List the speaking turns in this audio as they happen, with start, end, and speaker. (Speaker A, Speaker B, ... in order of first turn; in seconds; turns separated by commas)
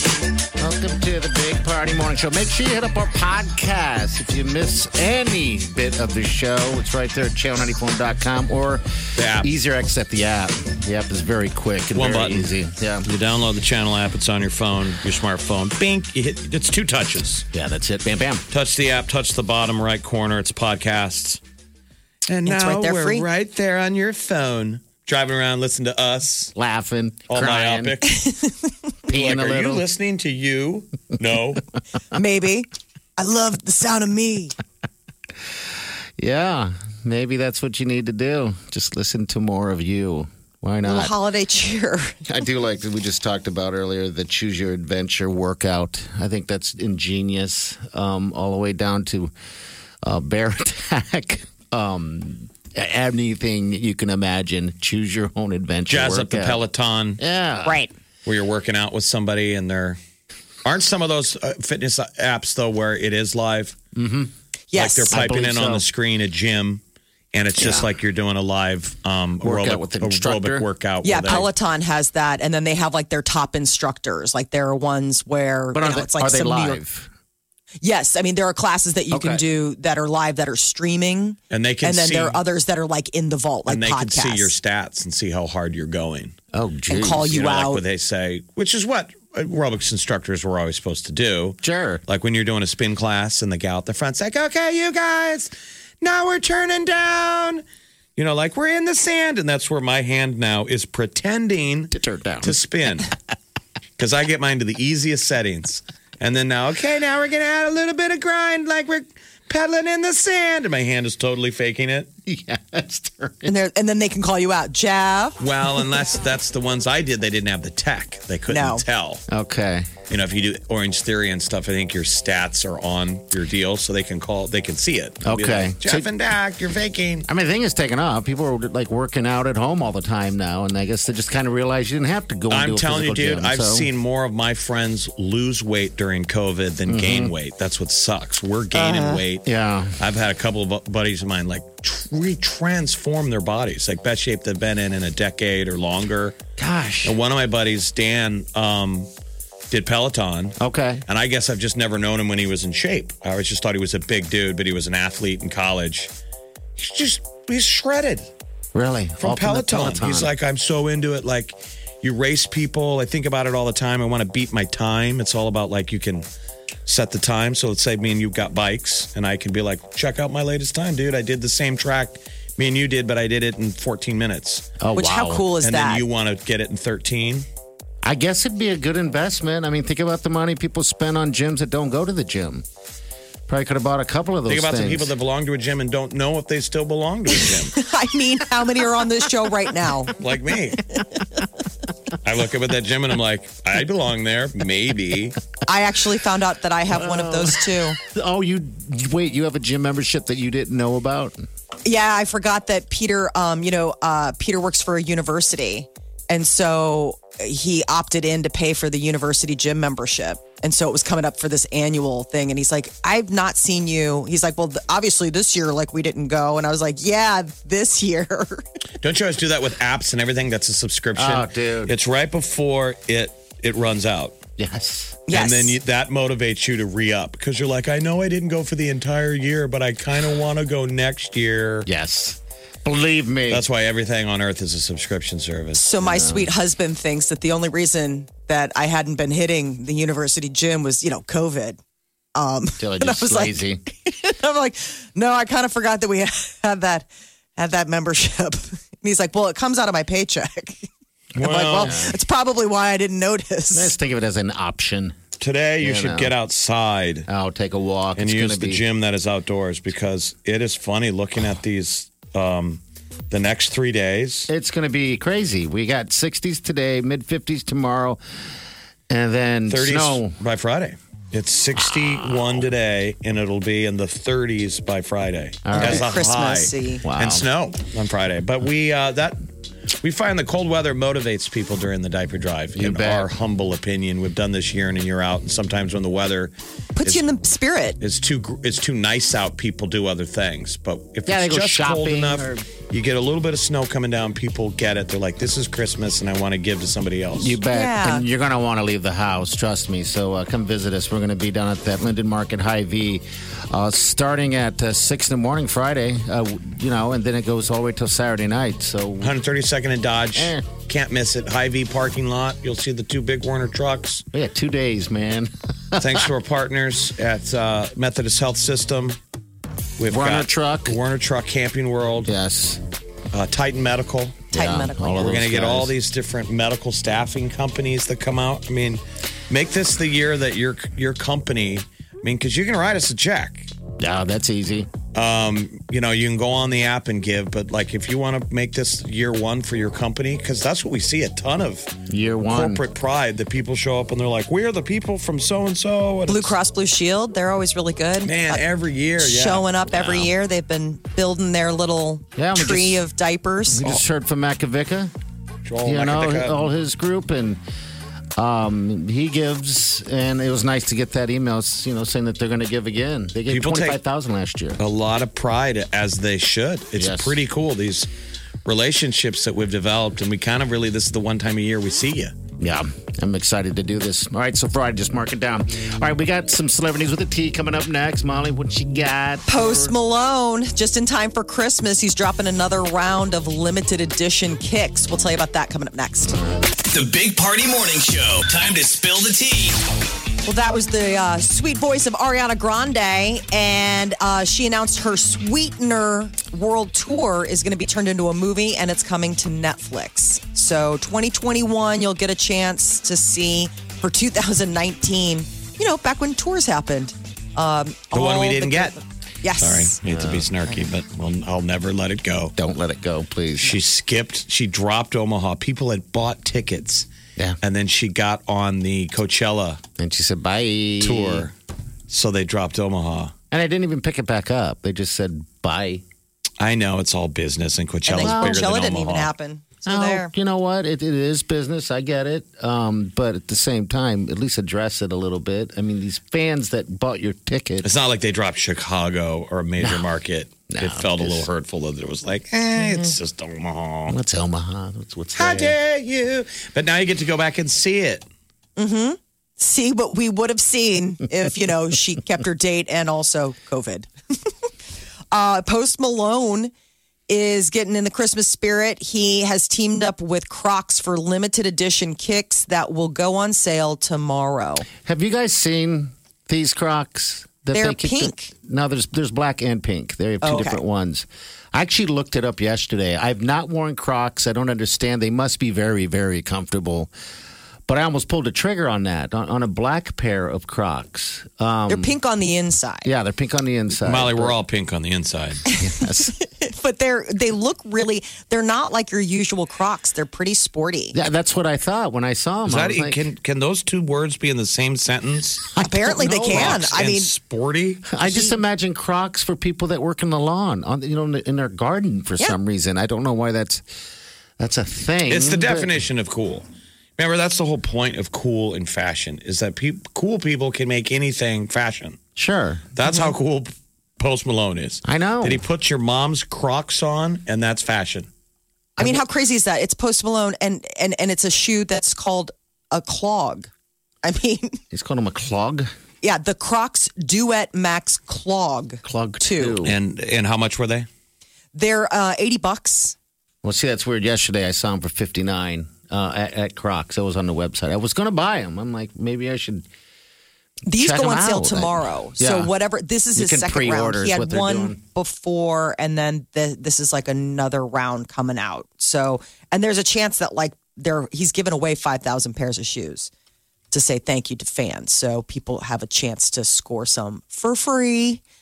Speaker A: 0.6-13.1, Speaker B: 9.2-9.5, Speaker B: 11.9-12.5, Speaker B: 13.0-17.4, Speaker A: 17.5-18.4, Speaker B: 18.5-21.4, Speaker B: 22.3-26.5, Speaker C: 22.4-23.2, Speaker A: 26.5-27.9, Speaker B: 27.3-28.2, Speaker C: 28.1-28.5, Speaker A: 29.1-29.8, Speaker B: 29.1-31.6, Speaker C: 32.1-34.5, Speaker A: 36.2-41.1, Speaker C: 40.8-42.2, Speaker A: 42.2-49.3, Speaker A: 50.0-56.6, Speaker B: 55.9-57.2, Speaker A: 57.2-57.8, Speaker C: 57.6-57.9, Speaker B: 58.2-60.0, Speaker B: 60.6-63.8, Speaker A: 63.9-64.3, Speaker C: 64.7-65.2, Speaker B: 64.7-66.8, Speaker A: 65.1-65.8, Speaker B: 67.3-71.5, Speaker A: 67.6-67.9, Speaker A: 69.4-70.6, Speaker C: 71.0-76.8, Speaker A: 75.7-77.1, Speaker C: 77.8-84.5, Speaker A: 79.1-79.4, Speaker B: 81.5-82.4, Speaker B: 83.7-86.3, Speaker A: 86.5-87.3, Speaker C: 86.9-87.8, Speaker B: 87.2-97.6, Speaker A: 91.6-92.0, Speaker B: 98.2-103.1, Speaker A: 101.9-102.6, Speaker B: 104.0-112.1, Speaker A: 112.2-113.5, Speaker C: 113.5-115.3, Speaker B: 115.4-119.2, Speaker C: 118.5-118.8, Speaker A: 119.3-119.9, Speaker B: 120.1-127.3, Speaker A: 125.2-126.1, Speaker A: 127.3-133.9, Speaker B: 132.5-139.4, Speaker A: 136.9-137.3, Speaker C: 138.7-139.2, Speaker A: 139.4-140.0, Speaker B: 140.0-146.3, Speaker A: 146.6-147.2, Speaker B: 147.0-149.1, Speaker B: 149.7-150.6, Speaker A: 150.6-151.0, Speaker B: 151.1-156.1, Speaker B: 156.8-158.3, Speaker A: 158.7-160.3, Speaker B: 159.2-166.2, Speaker B: 166.9-174.7, Speaker A: 174.8-175.5, Speaker C: 174.9-176.0, Speaker B: 175.6-177.4, Speaker A: 178.0-182.6, Speaker A: 183.5-185.1, Speaker B: 184.5-187.8, Speaker C: 187.4-190.1, Speaker B: 190.2-190.8, Speaker B: 192.2-195.4, Speaker C: 195.7-198.0, Speaker A: 196.9-201.5, Speaker C: 201.8-218.6, Speaker B: 219.0-224.3, Speaker A: 221.1-221.9, Speaker A: 224.6-225.2, Speaker C: 225.3-225.8, Speaker B: 225.3-231.9, Speaker A: 231.8-233.7, Speaker B: 233.5-235.8, Speaker C: 235.7-241.8, Speaker A: 236.0-236.5, Speaker C: 242.3-253.9, Speaker A: 242.8-243.8, Speaker B: 251.3-252.0, Speaker A: 251.8-252.1, Speaker A: 253.7-255.2, Speaker B: 255.4-257.3, Speaker A: 255.8-256.3, Speaker A: 257.3-258.8, Speaker B: 258.1-264.5, Speaker A: 264.5-268.2, Speaker A: 269.1-270.4, Speaker B: 269.7-279.4, Speaker A: 271.8-272.6, Speaker A: 275.6-276.1, Speaker C: 275.7-277.0, Speaker A: 277.0-277.4, Speaker B: 280.0-286.5, Speaker A: 282.8-283.3, Speaker C: 287.0-288.0, Speaker B: 288.0-297.6, Speaker A: 291.3-292.6, Speaker A: 297.4-309.3, Speaker C: 297.7-298.2, Speaker B: 309.2-314.2, Speaker A: 310.3-310.6, Speaker A: 314.3-316.3, Speaker B: 316.0-319.2, Speaker B: 320.0-322.3, Speaker A: 320.1-321.0, Speaker A: 322.2-322.8, Speaker B: 323.3-324.5, Speaker C: 324.5-325.4, Speaker A: 324.5-325.9, Speaker B: 325.2-333.7, Speaker A: 334.0-334.9, Speaker B: 335.1-341.9, Speaker A: 342.1-342.8, Speaker B: 342.5-346.5, Speaker C: 346.3-348.6, Speaker B: 348.2-350.3, Speaker C: 349.2-353.9, Speaker A: 352.4-353.0, Speaker A: 353.7-355.1, Speaker B: 355.6-356.6, Speaker A: 355.8-357.6, Speaker A: 358.4-364.8, Speaker B: 363.5-364.0, Speaker B: 364.8-368.1, Speaker A: 366.9-367.4, Speaker B: 368.6-372.3, Speaker A: 372.6-379.9, Speaker C: 379.5-386.4, Speaker D: 386.9-389.8, Speaker C: 390.4-410.0, Speaker B: 408.1-408.9, Speaker B: 409.6-412.5, Speaker A: 410.1-410.4, Speaker A: 412.6-413.8, Speaker B: 413.6-417.1, Speaker B: 417.6-419.8, Speaker A: 420.0-421.5, Speaker B: 421.0-421.5, Speaker B: 422.1-423.3, Speaker A: 423.5-426.0, Speaker B: 426.6-429.3, Speaker C: 428.1-430.3, Speaker A: 428.2-428.6, Speaker A: 429.9-437.9, Speaker B: 437.8-444.2, Speaker A: 440.7-441.5, Speaker A: 444.1-445.8, Speaker B: 445.4-448.3, Speaker C: 448.8-454.1, Speaker C: 455.3-456.7, Speaker C: 457.3-464.9, Speaker A: 465.0-477.1, Speaker C: 467.7-468.5, Speaker C: 470.4-470.8, Speaker A: 477.9-482.1, Speaker C: 481.9-483.1, Speaker A: 483.0-484.6, Speaker B: 484.0-485.6, Speaker C: 485.7-491.1, Speaker A: 485.8-486.3, Speaker A: 491.1-493.2, Speaker B: 492.6-495.7, Speaker A: 495.7-496.9, Speaker C: 495.8-497.3, Speaker B: 496.4-498.1, Speaker A: 498.1-503.8, Speaker C: 498.2-498.5, Speaker A: 504.6-506.0, Speaker B: 505.3-506.6, Speaker B: 507.2-512.2, Speaker A: 512.4-512.9, Speaker B: 513.0-518.3, Speaker A: 515.0-515.6, Speaker C: 519.0-523.7, Speaker C: 524.2-524.8, Speaker A: 524.9-525.9, Speaker C: 526.2-529.8, Speaker A: 529.0-530.0, Speaker B: 529.8-531.1, Speaker C: 531.7-533.1, Speaker A: 533.6-539.9, Speaker C: 540.9-553.3, Speaker A: 541.0-542.7, Speaker A: 543.3-545.0, Speaker C: 553.9-558.4